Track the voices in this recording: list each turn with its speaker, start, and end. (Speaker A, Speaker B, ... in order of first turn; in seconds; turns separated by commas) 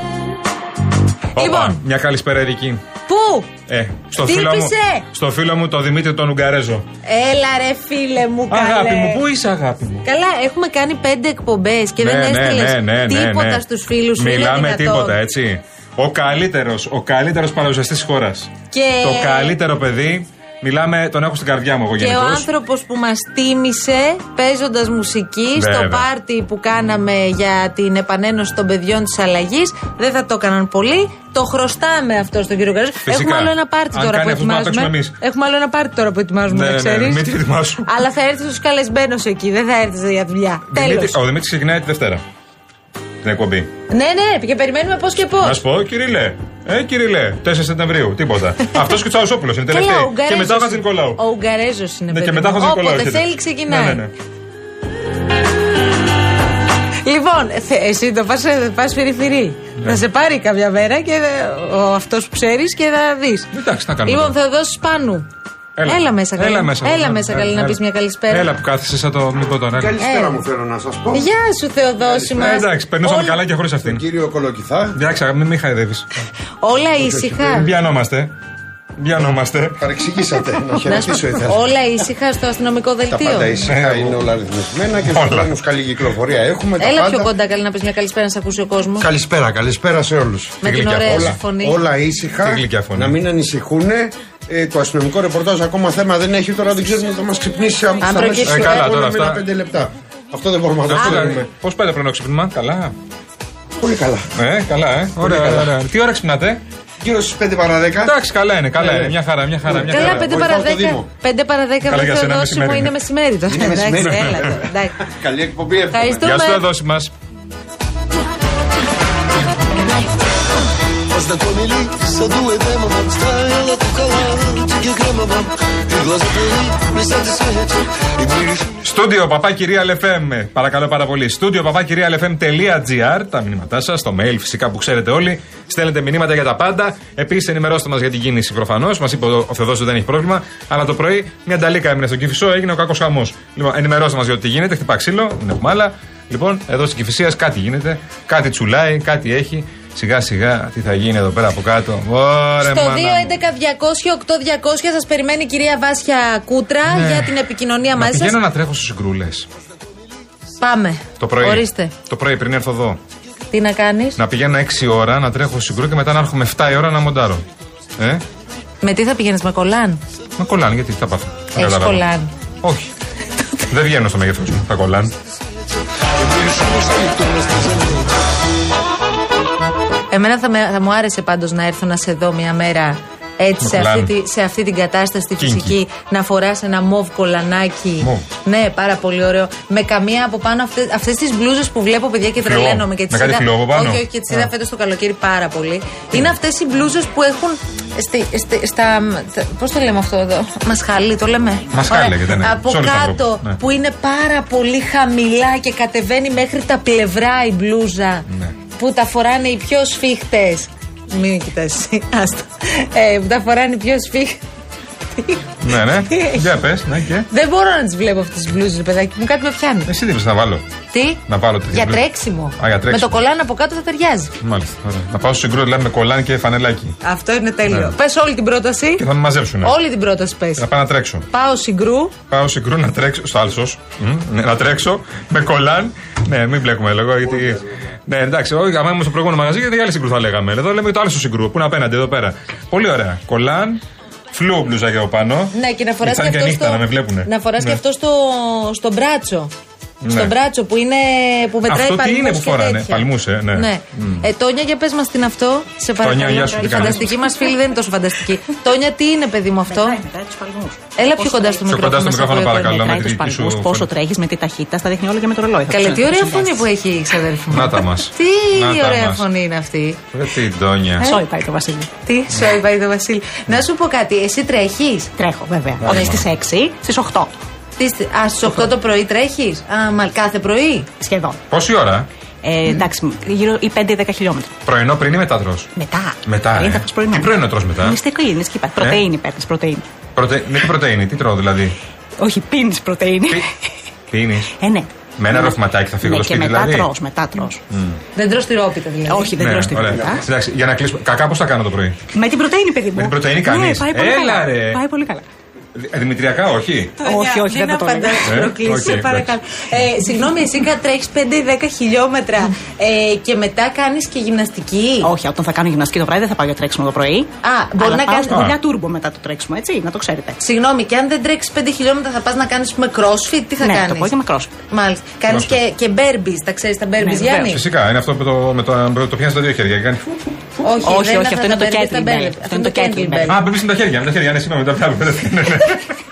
Speaker A: 1.4-2.8, Speaker B: 1.4-1.8, Speaker B: 3.1-3.5, Speaker A: 3.7-6.8, Speaker B: 4.2-5.0, Speaker B: 7.0-9.2, Speaker A: 8.5-10.0, Speaker B: 10.0-15.2, Speaker A: 12.0-13.6, Speaker A: 14.2-22.5, Speaker B: 18.7-19.6, Speaker B: 22.0-37.3, Speaker A: 25.5-26.1, Speaker A: 33.0-35.1, Speaker A: 36.5-37.9, Speaker B: 37.8-41.2, Speaker A: 40.7-42.2, Speaker A: 43.2-43.7, Speaker B: 43.9-45.6, Speaker A: 45.4-51.2, Speaker B: 49.7-54.0, Speaker A: 52.1-54.1, Speaker B: 57.0-63.5, Speaker A: 63.5-64.3, Speaker B: 64.0-65.2, Speaker A: 65.8-70.0, Speaker B: 65.8-68.5, Speaker C: 69.7-71.3, Speaker B: 70.0-70.4, Speaker B: 71.1-73.4, Speaker C: 72.0-72.6, Speaker A: 72.4-74.0, Speaker C: 73.8-75.0, Speaker A: 74.9-76.0, Speaker B: 76.6-77.7, Speaker C: 77.0-77.6, Speaker A: 77.5-78.3, Speaker A: 79.0-79.8, Speaker C: 79.8-81.7, Speaker B: 80.8-83.6, Speaker C: 83.1-87.3, Speaker A: 83.6-84.2, Speaker A: 85.1-85.5, Speaker B: 86.8-89.1, Speaker C: 89.0-101.5, Speaker B: 90.6-91.8, Speaker A: 90.6-91.4, Speaker A: 92.4-93.2, Speaker B: 98.0-98.9, Speaker A: 98.4-99.4, Speaker A: 100.9-102.9, Speaker B: 101.0-101.3, Speaker C: 103.8-104.3, Speaker A: 104.4-106.6, Speaker C: 105.2-105.7, Speaker C: 107.0-108.2, Speaker A: 108.0-110.3, Speaker C: 108.7-111.1, Speaker B: 109.8-115.0, Speaker A: 111.8-112.9, Speaker C: 113.5-116.3, Speaker B: 115.9-116.6, Speaker A: 116.2-117.1, Speaker D: 121.1-128.7, Speaker A: 128.8-153.3, Speaker B: 152.6-158.4, Speaker A: 156.8-157.4, Speaker A: 157.9-159.5, Speaker B: 160.6-161.9, Speaker A: 161.2-163.0, Speaker B: 163.5-164.2, Speaker A: 164.2-167.4, Speaker A: 168.0-168.2, Speaker B: 168.8-170.0, Speaker A: 170.4-172.1, Speaker B: 171.5-172.3, Speaker A: 172.6-172.9, Speaker A: 173.7-175.1, Speaker D: 176.2-178.1, Speaker B: 180.1-214.4, Speaker A: 183.6-184.1, Speaker A: 185.4-185.7, Speaker A: 192.4-194.5, Speaker A: 201.7-203.6, Speaker A: 215.6-217.3, Speaker B: 216.1-216.4, Speaker B: 217.3-219.9, Speaker A: 219.9-220.6, Speaker B: 220.9-224.3, Speaker A: 221.3-222.0, Speaker A: 222.6-223.2, Speaker A: 224.4-226.9, Speaker B: 227.0-229.0, Speaker A: 227.7-227.9, Speaker A: 229.0-229.8, Speaker B: 229.6-230.6, Speaker A: 230.6-231.3, Speaker B: 231.3-232.1, Speaker A: 232.3-243.8, Speaker A: 244.3-247.8, Speaker B: 245.5-249.5, Speaker A: 250.0-250.3, Speaker B: 250.1-260.0, Speaker A: 251.7-254.2, Speaker A: 256.0-257.1, Speaker E: 256.3-257.5, Speaker E: 259.7-261.6, Speaker B: 260.9-262.7, Speaker A: 261.7-263.9, Speaker E: 262.3-266.6, Speaker B: 265.7-270.0, Speaker A: 267.5-269.2, Speaker A: 270.1-271.2, Speaker E: 271.0-271.9, Speaker B: 272.0-275.1, Speaker E: 275.2-277.4, Speaker A: 275.8-276.2, Speaker B: 277.8-280.9, Speaker E: 281.0-281.4, Speaker A: 281.5-282.1, Speaker E: 282.4-284.5, Speaker A: 284.6-285.7, Speaker E: 285.8-289.8, Speaker A: 286.2-288.0, Speaker A: 288.8-289.0, Speaker A: 290.1-291.8, Speaker E: 292.2-293.5, Speaker A: 294.1-294.5, Speaker E: 294.6-297.6, Speaker A: 295.1-296.9, Speaker A: 297.7-298.0, Speaker B: 298.1-299.4, Speaker E: 299.1-300.2, Speaker A: 299.4-302.0, Speaker E: 302.1-305.2, Speaker A: 302.9-304.8, Speaker A: 305.7-307.0, Speaker E: 307.0-308.4, Speaker B: 307.0-315.1, Speaker A: 308.2-309.3, Speaker E: 315.0-320.4, Speaker B: 317.4-318.4, Speaker A: 318.3-318.6, Speaker B: 320.4-324.1, Speaker E: 323.6-324.5, Speaker B: 324.7-327.6, Speaker E: 327.0-327.5, Speaker A: 327.4-330.2, Speaker B: 330.6-333.4, Speaker E: 330.8-333.4, Speaker A: 333.3-335.8